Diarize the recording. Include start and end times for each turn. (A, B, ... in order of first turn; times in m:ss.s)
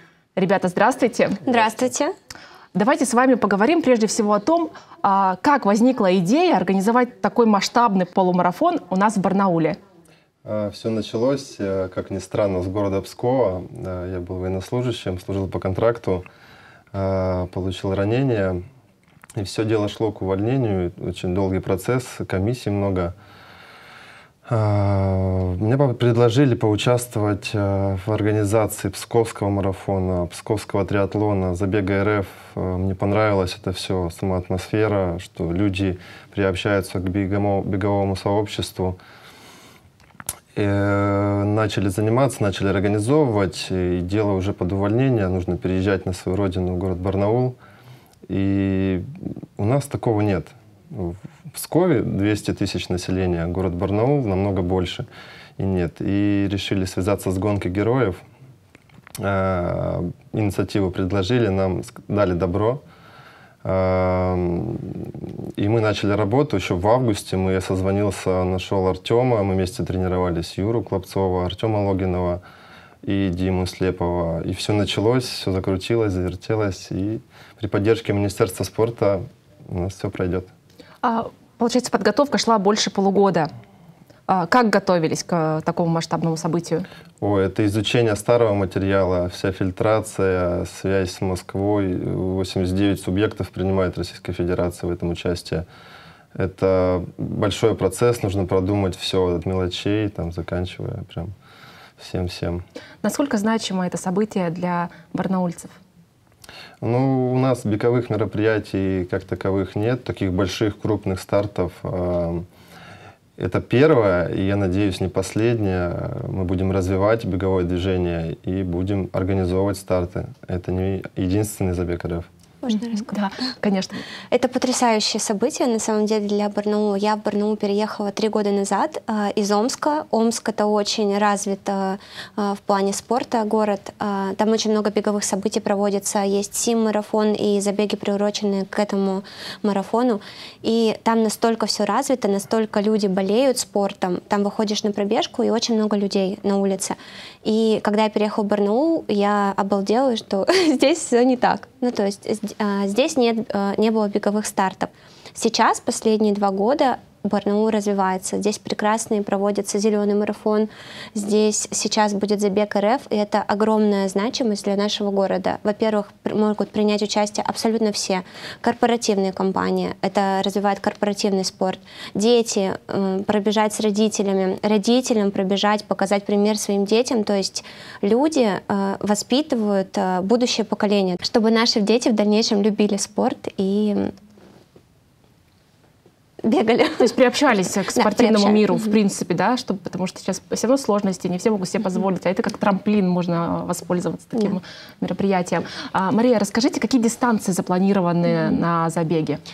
0:00.4-0:01.4 A
0:01.5-0:02.1 B
0:02.7-0:09.8 A
0:10.4-0:16.2 C
0:16.9-0:18.6 C
0:19.4-0:23.2 C
0:24.5-0:39.0 C
0:40.6-0:47.6 C
0:48.3-0:49.1 C
0:49.6-0:55.1 C
0:55.6-0:58.2 C
0:59.2-1:02.8 C
1:03.6-1:12.4 C
1:13.0-1:20.5 C
1:21.0-1:23.5 A
1:24.3-1:26.8 A
1:27.2-1:35.6 C
1:36.4-1:41.3 C
1:42.0-1:42.6 C
1:43.0-1:45.8 A
1:46.8-1:52.4 C
1:53.4-2:02.3 C
2:02.6-2:03.1 B
2:02.7-2:04.0 A
2:04.3-3:04.1 B
3:06.4-3:07.2 B
3:07.0-3:19.4 A
3:07.9-3:08.9 B